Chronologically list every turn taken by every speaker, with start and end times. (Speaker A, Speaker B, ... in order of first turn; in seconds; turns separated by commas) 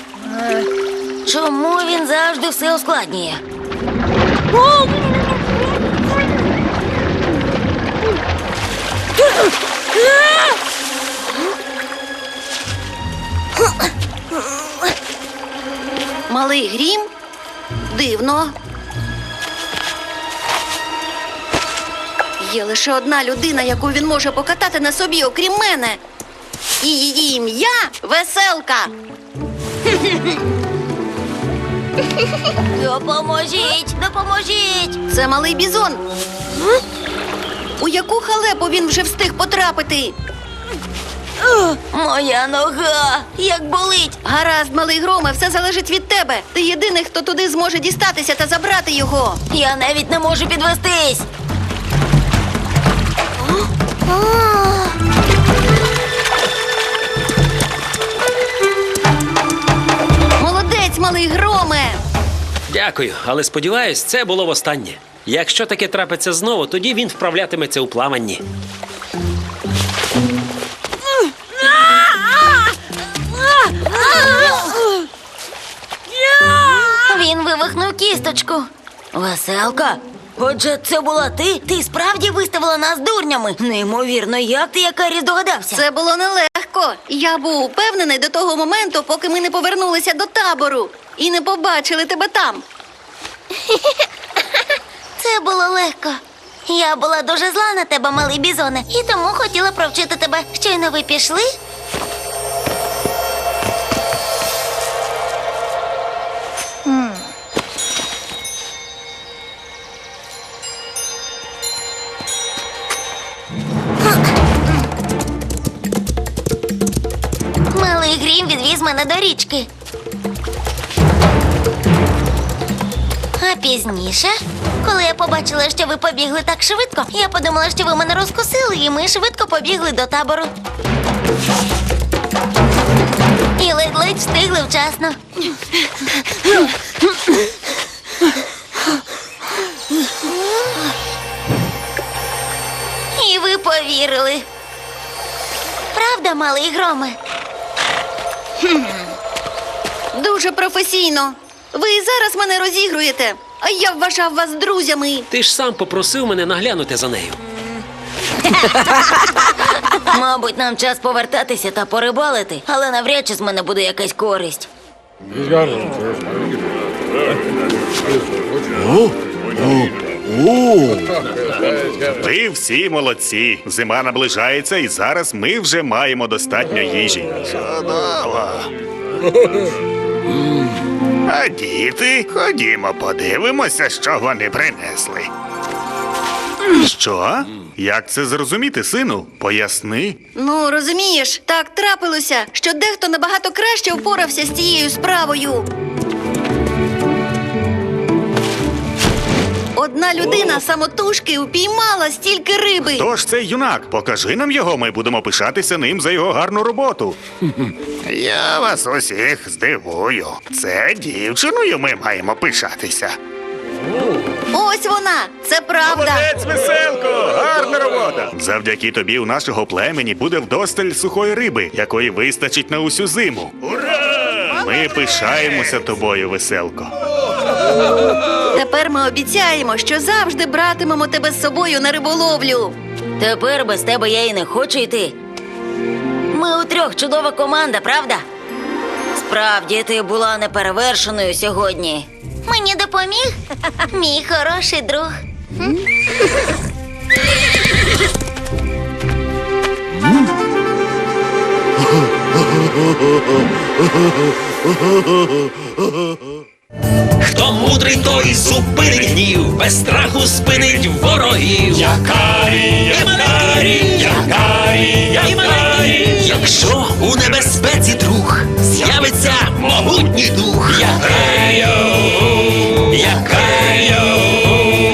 Speaker A: 1.2-3.4, Speaker B: 16.3-17.1, Speaker B: 17.9-18.5, Speaker B: 22.4-26.0, Speaker B: 26.8-28.9, Speaker A: 32.7-35.0, Speaker B: 35.1-36.0, Speaker B: 37.8-40.1, Speaker A: 41.5-44.2, Speaker B: 44.2-49.4, Speaker A: 49.5-51.3, Speaker B: 54.1-54.9, Speaker B: 60.4-62.0, Speaker C: 62.7-68.4, Speaker A: 73.6-74.9, Speaker A: 76.5-85.8, Speaker B: 85.7-92.6, Speaker A: 95.2-101.5, Speaker A: 117.7-119.7, Speaker A: 123.4-130.5, Speaker A: 133.6-135.2, Speaker A: 143.1-144.4, Speaker A: 145.9-147.2, Speaker B: 150.1-155.3, Speaker C: 155.3-157.4, Speaker A: 159.9-164.7, Speaker D: 172.0-178.7, Speaker D: 181.2-185.3, Speaker D: 186.7-190.2, Speaker B: 190.3-195.7, Speaker B: 199.8-203.1, Speaker D: 202.9-207.2, Speaker D: 208.0-213.1, Speaker B: 214.5-216.3, Speaker D: 215.9-226.9, Speaker B: 228.5-232.8, Speaker A: 233.2-235.2, Speaker A: 236.3-238.2, Speaker A: 239.1-243.4, Speaker A: 243.9-245.2, Speaker C: 257.2-274.6